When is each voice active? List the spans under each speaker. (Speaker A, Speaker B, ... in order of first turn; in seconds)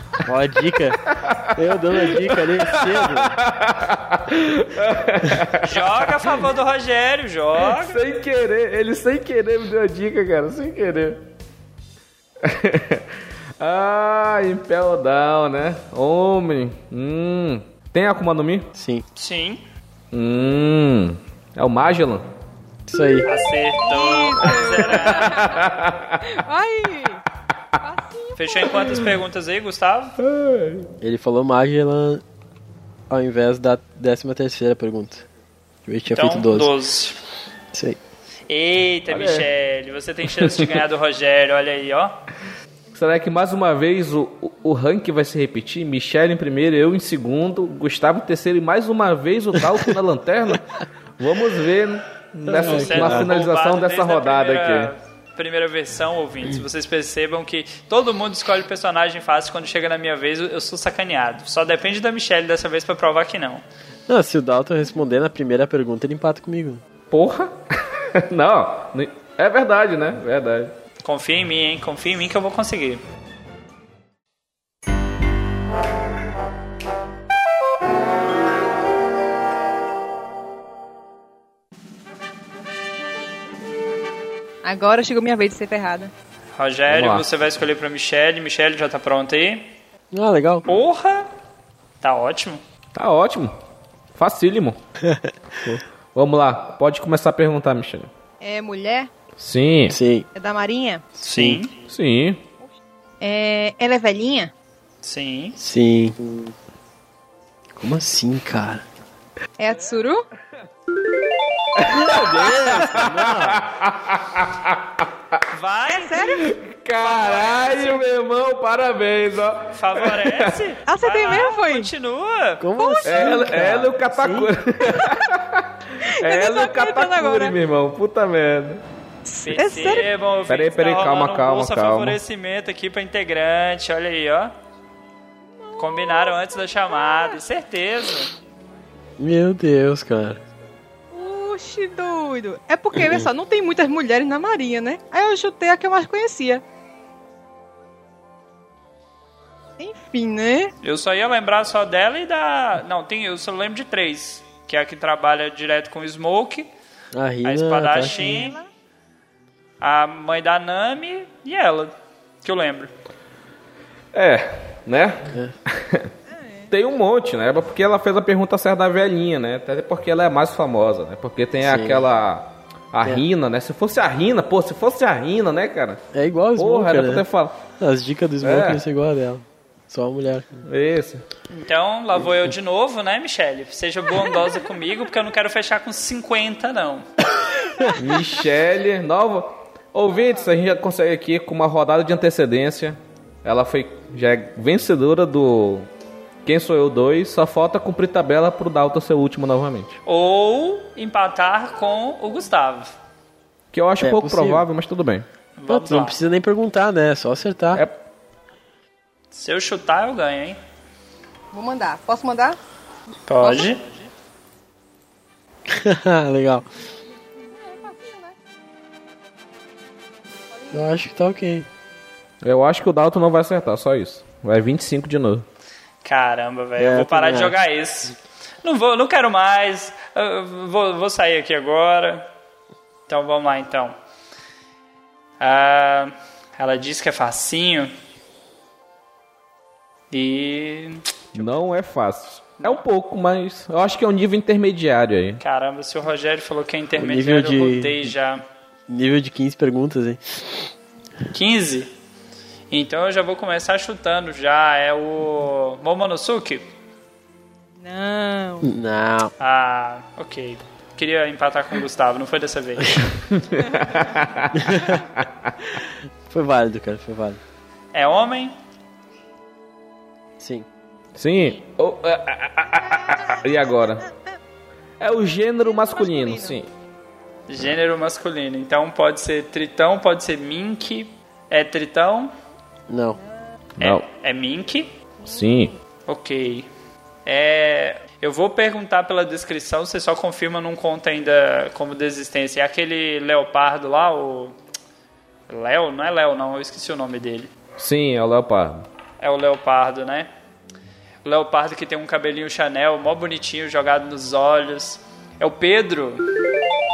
Speaker A: 0.2-1.0, 1.5-3.4, 18.8-19.1, 22.9-23.3, 31.0-32.2, 33.1-35.2, 35.9-36.7, 37.7-38.0, 52.5-53.3, 64.1-66.8, 90.1-90.6, 99.9-100.3, 101.2-101.6, 105.6-106.2, 107.8-108.8, 111.9-113.6, 122.6-124.5, 139.2-140.4, 142.9-143.3, 157.1-158.5, 171.6-172.1, 176.1-177.2, 177.8-180.5, 204.0-204.7, 205.7-207.8, 215.7-216.7, 220.7-221.7, 226.8-227.6, 247.0-248.1, 248.9-250.7, 258.6-259.3, 264.6-264.9, 266.3-267.4, 270.4-270.7, 282.9-283.2
Speaker B: 1.1-6.3, 7.7-11.3, 12.4-18.7, 20.1-22.2, 25.1-26.3, 30.2-30.9, 39.1-39.5, 42.9-54.9, 67.1-70.8, 86.9-87.3, 92.9-93.5, 94.1-94.8, 95.5-98.1, 99.4-100.0, 101.9-102.4, 111.8-115.1, 116.4-120.6, 123.0-128.8, 130.5-132.2, 164.1-166.1, 166.7-176.0, 176.6-177.6, 178.4-178.8, 180.6-181.2, 187.9-195.9, 196.4-200.0, 203.7-205.2, 222.4-225.4, 241.3-245.4, 263.3-265.5, 271.1-274.1, 275.0-276.7, 285.2-285.7, 297.8-298.8
Speaker C: 5.6-8.0, 19.1-19.6, 23.3-25.5, 28.4-30.2, 36.1-37.2, 38.5-42.2, 52.5-63.6, 71.0-73.0, 86.6-89.7, 90.7-91.3, 92.0-92.6, 101.2-101.7, 105.0-105.6, 115.5-116.3, 117.0-118.1, 119.7-122.6, 129.4-134.6, 135.8-138.3, 150.8-156.7, 157.4-158.6, 159.8-162.9, 181.5-187.2, 200.1-202.9, 205.6-206.2, 209.3-210.6, 213.3-213.8, 226.0-232.3, 233.1-233.9, 235.4-237.9, 240.1-241.4, 245.4-248.4, 251.3-251.9, 252.7-256.7, 259.4-263.1, 267.9-268.6, 277.5-282.3, 283.8-284.9, 286.1-286.7, 287.3-294.6, 295.5-297.5, 299.2-300.3, 301.2-306.2
Speaker D: 23.8-25.7, 26.2-27.2, 27.8-28.7, 84.6-86.1, 98.4-99.1, 100.3-101.1, 103.2-104.5, 109.6-110.2, 115.9-116.5, 120.9-121.9, 122.8-123.4, 124.9-125.3, 126.0-127.5, 129.2-130.1, 135.7-137.4, 141.1-146.6, 149.8-150.7, 158.2-158.7, 166.3-166.7, 211.5-212.6, 213.4-213.7, 217.6-218.4, 257.8-258.7